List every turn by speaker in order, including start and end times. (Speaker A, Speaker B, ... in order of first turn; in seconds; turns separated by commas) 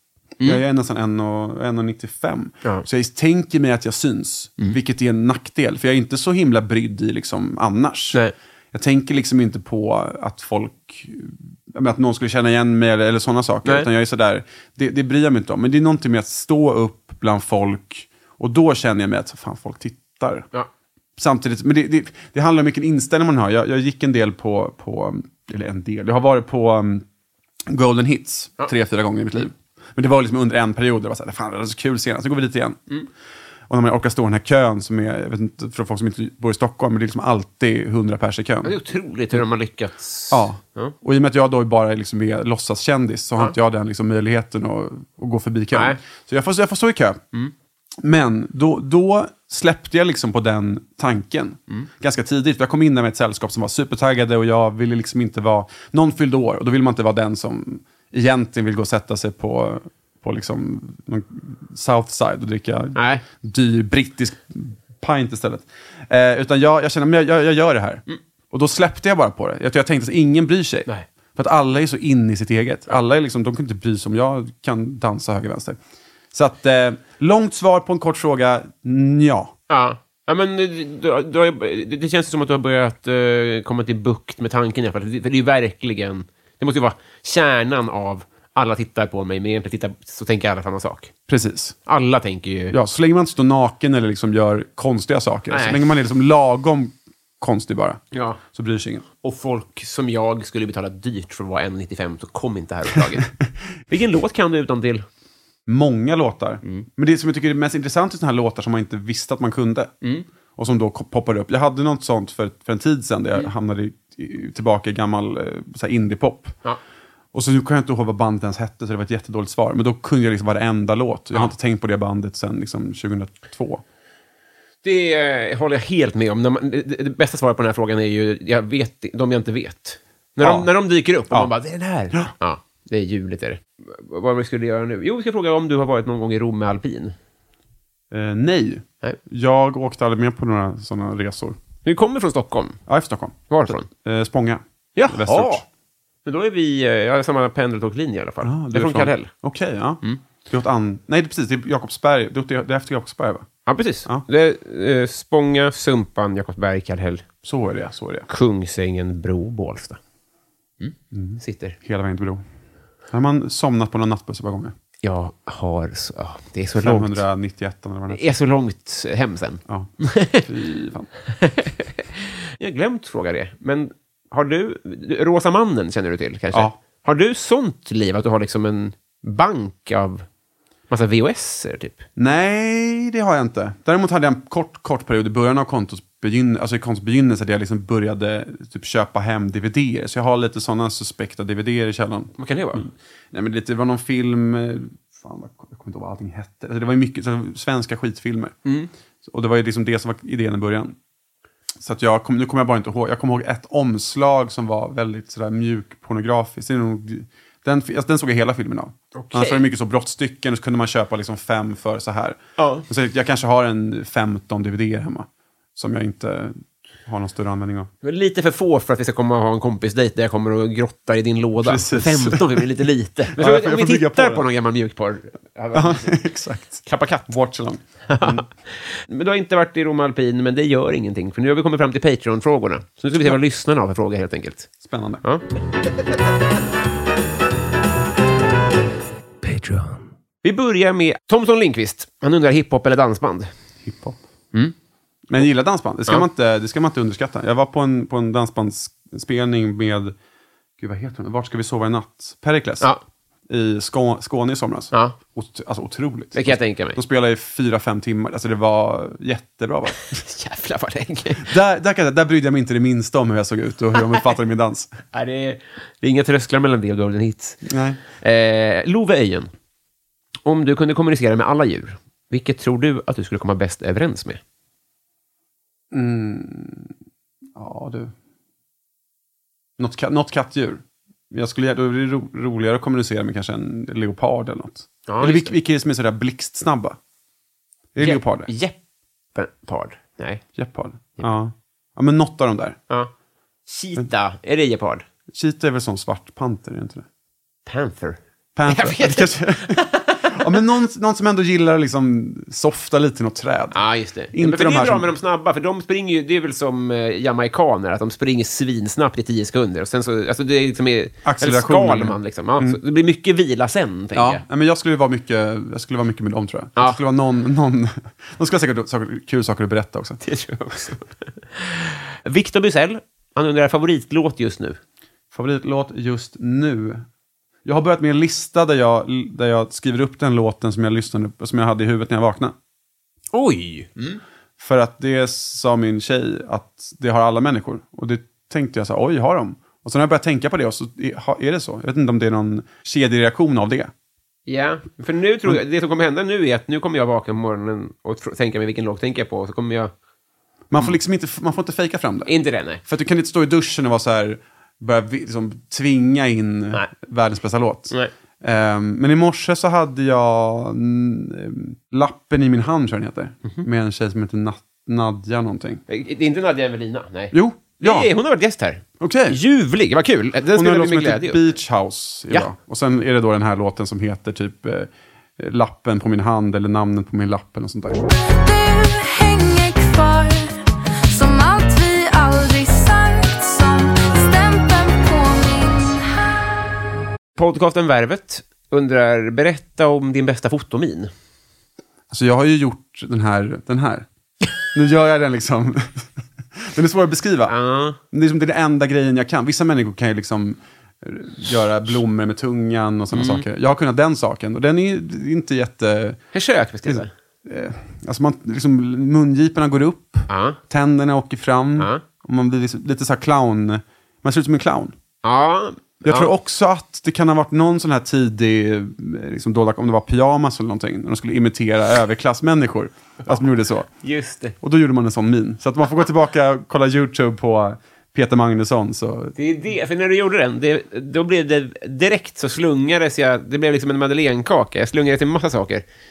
Speaker A: 0.4-8.2, Speaker A: 8.7-20.5, Speaker A: 21.2-27.1, Speaker A: 27.7-32.8, Speaker A: 33.7-38.8, Speaker B: 38.6-40.9, Speaker A: 40.3-47.2, Speaker B: 45.7-46.0, Speaker A: 48.0-75.8, Speaker B: 62.9-63.2, Speaker A: 76.3-79.5, Speaker B: 79.7-91.1, Speaker A: 91.3-91.8, Speaker B: 91.8-92.7, Speaker A: 92.7-99.0, Speaker B: 95.5-95.8, Speaker B: 98.1-98.4, Speaker B: 99.2-103.3, Speaker B: 103.9-105.0, Speaker A: 105.7-109.9, Speaker A: 110.5-116.6, Speaker A: 117.3-123.8, Speaker B: 124.8-137.2, Speaker A: 130.4-130.7, Speaker A: 138.1-141.6, Speaker B: 141.8-142.8, Speaker A: 142.9-145.6, Speaker B: 143.5-143.9, Speaker B: 144.9-145.6, Speaker B: 146.2-149.3, Speaker A: 148.4-153.5, Speaker B: 153.7-157.2, Speaker A: 157.4-158.3, Speaker B: 158.3-160.0, Speaker B: 160.8-161.8, Speaker A: 161.1-162.4, Speaker A: 163.1-164.7, Speaker B: 165.0-167.2, Speaker A: 166.8-168.3, Speaker B: 168.1-170.4, Speaker A: 169.7-171.1, Speaker B: 171.4-180.2, Speaker B: 180.9-182.0, Speaker A: 182.2-198.6, Speaker B: 192.4-192.8, Speaker B: 198.6-198.9, Speaker A: 199.2-200.9, Speaker A: 201.8-217.9, Speaker B: 209.1-209.6, Speaker B: 212.6-212.8, Speaker B: 218.0-226.1, Speaker A: 221.6-222.6, Speaker A: 223.3-224.4, Speaker A: 225.7-228.4, Speaker B: 226.8-227.3, Speaker B: 228.1-234.7, Speaker A: 234.8-235.2, Speaker B: 240.4-243.5, Speaker A: 243.8-244.2, Speaker A: 245.3-250.2, Speaker A: 250.8-252.9, Speaker A: 253.5-260.2, Speaker B: 256.3-257.0, Speaker B: 260.1-261.5, Speaker A: 261.4-264.9, Speaker B: 265.1-267.6, Speaker A: 267.6-268.0, Speaker B: 268.2-269.5, Speaker B: 270.4-274.4, Speaker A: 275.9-276.9, Speaker A: 277.6-278.1, Speaker A: 279.8-287.0, Speaker B: 285.1-285.5, Speaker A: 287.9-288.5, Speaker B: 288.0-288.8, Speaker B: 289.3-290.4, Speaker A: 290.5-292.8, Speaker B: 293.7-295.1, Speaker A: 295.3-297.1, Speaker B: 297.6-300.4, Speaker A: 298.6-305.1, Speaker B: 303.7-314.4, Speaker A: 311.2-312.8, Speaker A: 314.1-320.2, Speaker B: 320.2-324.8, Speaker A: 325.3-327.1, Speaker A: 327.6-332.5, Speaker B: 333.3-334.2, Speaker A: 334.6-343.9, Speaker B: 344.5-349.9, Speaker A: 350.7-352.3, Speaker B: 352.2-352.8, Speaker A: 352.8-365.8, Speaker B: 365.9-371.4, Speaker A: 367.3-368.1, Speaker A: 369.0-369.4, Speaker A: 370.5-378.0, Speaker C: 378.2-386.1, Speaker B: 387.4-391.1, Speaker A: 392.1-394.1, Speaker A: 394.7-397.5, Speaker B: 397.5-398.0, Speaker A: 398.1-406.2, Speaker B: 403.1-403.4, Speaker B: 406.3-407.1, Speaker A: 406.8-414.9, Speaker B: 410.3-410.6, Speaker B: 411.8-412.0, Speaker B: 415.2-416.3, Speaker A: 416.0-423.9, Speaker B: 424.0-424.6, Speaker A: 424.6-429.3, Speaker B: 429.4-435.8